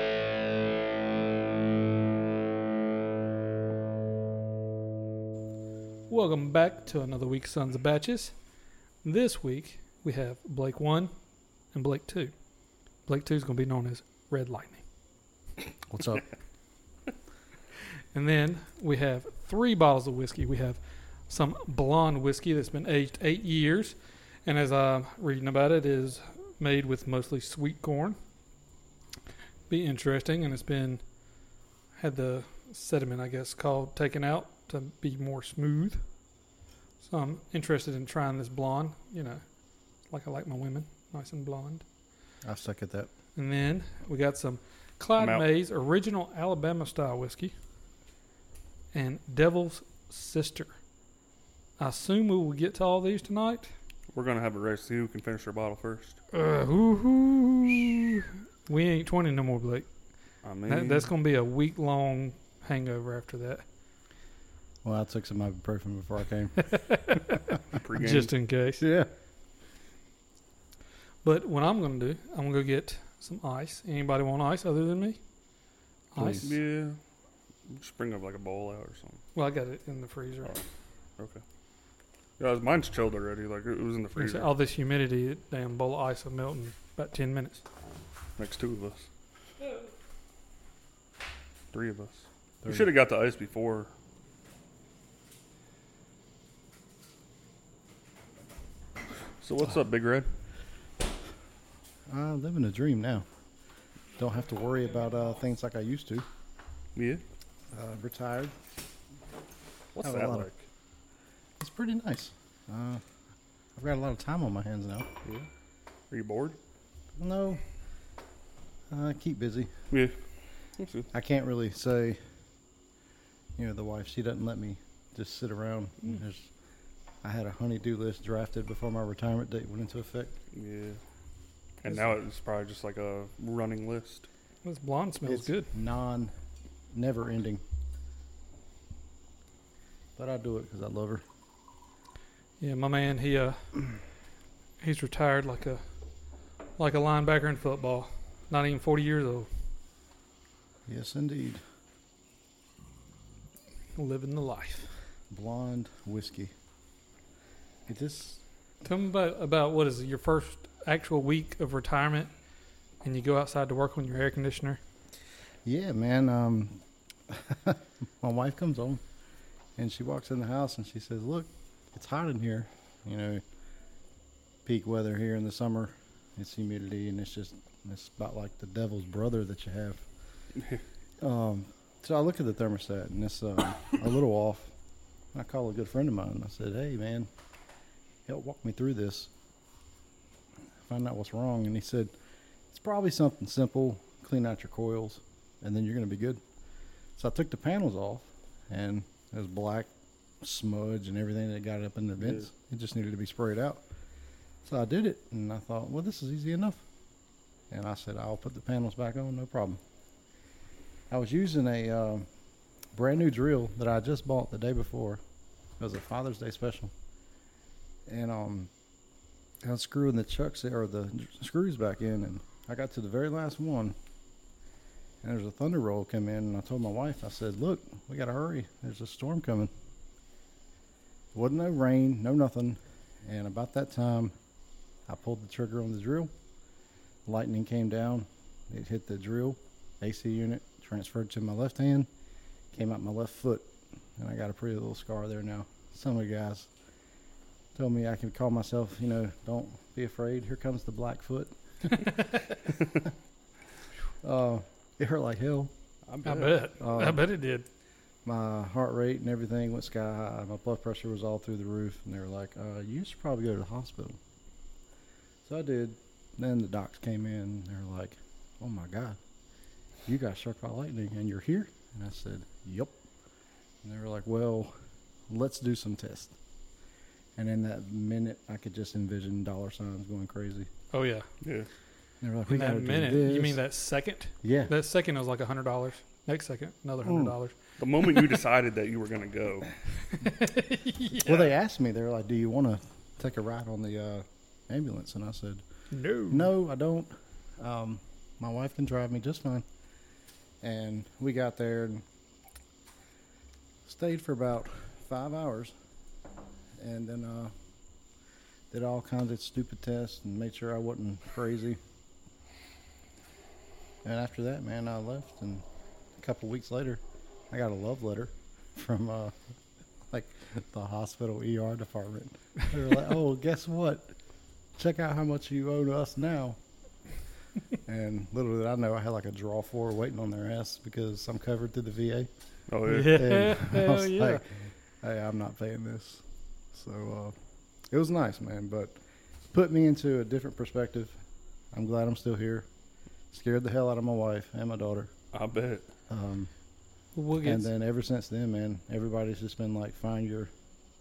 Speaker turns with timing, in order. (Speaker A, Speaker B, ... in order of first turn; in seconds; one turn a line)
Speaker A: 6.1-8.3
Speaker A: 9.0-11.1
Speaker A: 11.7-12.3
Speaker A: 13.1-14.8
Speaker B: 15.9-16.2
Speaker A: 18.1-28.2
Speaker A: 29.7-31.0
Speaker A: 32.0-36.0
Speaker A: 37.0-39.4
Speaker A: 40.1-41.8
Speaker B: 42.4-43.1
Speaker A: 43.4-47.5
Speaker C: 45.2-45.4
Speaker A: 48.9-50.7
Speaker A: 51.8-53.7
Speaker C: 54.1-56.2
Speaker A: 56.3-59.9
Speaker C: 60.4-61.1
Speaker A: 60.7-63.6
Speaker B: 64.8-66.6
Speaker A: 66.7-68.8
Speaker C: 67.8-68.3
Speaker B: 68.8-69.1
Speaker A: 71.2-75.2
Speaker A: 76.1-76.5
Speaker B: 76.1-76.5
Speaker C: 76.4-77.0
Speaker C: 77.7-79.2
Speaker A: 79.3-80.5
Speaker C: 82.4-84.5
Speaker A: 84.2-87.6
Speaker C: 88.4-89.1
Speaker C: 91.7-93.9
Speaker C: 99.4-100.3
Speaker B: 102.1-103.2
Speaker B: 104.2-106.2
Speaker C: 107.0-107.2
Speaker B: 107.7-108.5
Speaker C: 109.9-110.6
Speaker B: 110.0-110.5
Speaker B: 111.6-113.0
Speaker B: 113.8-115.1
Speaker C: 116.1-116.6
Speaker B: 117.2-117.6
Speaker B: 118.9-119.7
Speaker C: 119.9-120.2
Speaker C: 120.8-121.1
Speaker B: 121.1-122.2
Speaker B: 123.5-126.5
Speaker B: 127.2-130.4
Speaker C: 130.5-131.0
Speaker C: 131.8-134.3
Speaker B: 131.9-132.1
Speaker A: 134.6-135.7
Speaker B: 135.2-136.3
Speaker B: 136.9-137.6
Speaker B: 140.2-141.2
Speaker A: 142.6-143.6
Speaker A: 144.8-145.8
Speaker A: 146.8-149.5
Speaker B: 150.9-151.6
Speaker A: 153.9-154.9
Speaker B: 155.3-156.5
Speaker B: 157.9-158.4
Speaker A: 158.8-162.3
Speaker A: 163.0-164.8
Speaker B: 165.6-169.0
Speaker B: 169.8-173.4
Speaker B: 174.7-180.1
Speaker B: 181.2-184.7
Speaker B: 185.3-187.3
Speaker B: 188.3-189.3
Speaker B: 190.8-192.1
Speaker B: 192.7-196.4
Speaker B: 197.2-199.9
Speaker B: 200.4-203.8
Speaker B: 204.6-206.8
Speaker B: 207.7-209.8
Speaker B: 211.1-212.3
Speaker B: 212.9-215.2
Speaker B: 215.8-216.9
Speaker B: 218.1-218.7
Speaker B: 219.6-223.9
Speaker B: 225.2-229.7
Speaker B: 231.3-234.3
Speaker B: 235.1-236.3
Speaker B: 237.2-242.1
Speaker B: 242.7-246.7
Speaker B: 247.7-251.5
Speaker A: 252.1-252.4
Speaker B: 254.2-255.7
Speaker C: 256.1-256.6
Speaker A: 256.2-257.6
Speaker B: 256.8-257.2
Speaker B: 258.2-264.2
Speaker B: 265.4-269.2
Speaker B: 270.1-273.0
Speaker B: 273.8-274.7
Speaker B: 275.3-276.3
Speaker B: 277.4-280.7
Speaker A: 280.9-281.3
Speaker C: 281.4-281.7
Speaker B: 282.2-283.6
Speaker A: 282.5-288.1
Speaker B: 284.4-284.7
Speaker B: 287.0-287.3
Speaker C: 287.8-289.7
Speaker A: 290.1-291.5
Speaker B: 291.1-295.6
Speaker A: 295.9-296.5
Speaker B: 296.3-299.6
Speaker B: 300.6-302.0
Speaker B: 303.8-305.7
Speaker B: 306.8-307.5
Speaker B: 308.7-311.8
Speaker B: 314.0-315.6
Speaker B: 316.1-319.3
Speaker B: 320.1-324.1
Speaker B: 324.8-326.6
Speaker B: 327.8-332.3
Speaker C: 332.7-333.2
Speaker A: 332.9-334.4
Speaker B: 333.0-337.3
Speaker B: 337.9-339.0
Speaker B: 339.5-341.1
Speaker B: 341.7-342.7
Speaker B: 343.3-345.1
Speaker C: 345.3-345.9
Speaker B: 346.1-346.5
Speaker A: 347.1-347.7
Speaker B: 347.4-350.5